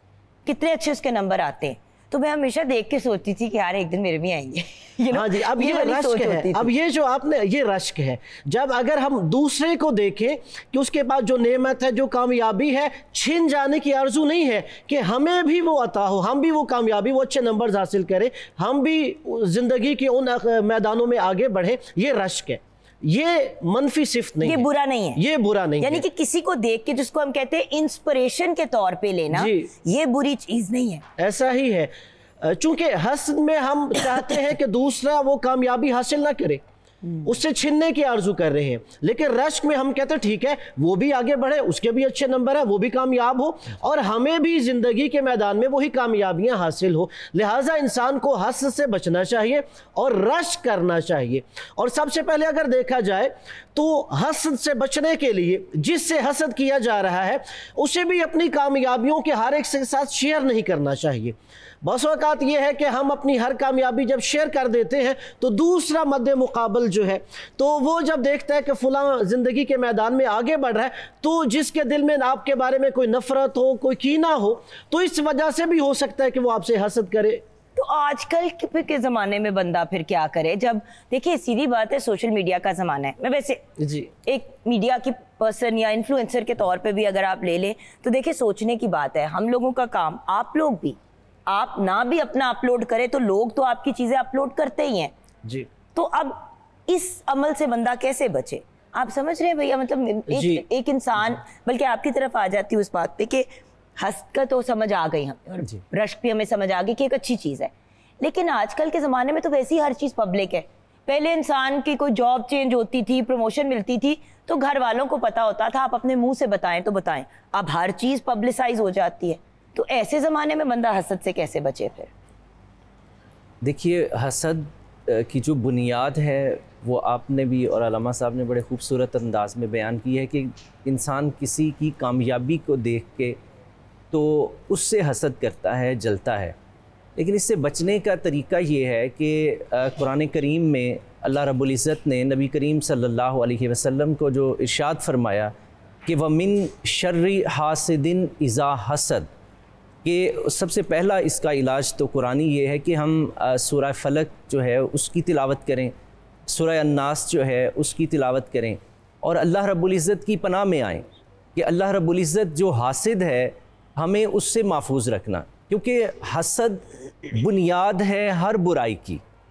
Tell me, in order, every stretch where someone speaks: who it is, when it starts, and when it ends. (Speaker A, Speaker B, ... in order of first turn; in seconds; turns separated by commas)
Speaker A: 0.5-6.7, Speaker B: 5.1-26.0, Speaker A: 24.4-25.2, Speaker A: 25.8-31.0, Speaker B: 29.3-29.7, Speaker B: 31.2-36.6, Speaker B: 37.2-77.4, Speaker A: 77.8-83.6, Speaker B: 83.8-84.1, Speaker A: 84.2-95.1, Speaker A: 95.9-103.5, Speaker B: 100.3-100.6, Speaker A: 104.0-107.7, Speaker A: 108.2-122.1, Speaker C: 123.6-133.4, Speaker C: 134.1-136.6, Speaker C: 137.2-145.5, Speaker C: 146.1-149.3, Speaker C: 150.0-155.9, Speaker C: 156.5-161.0, Speaker C: 161.6-169.2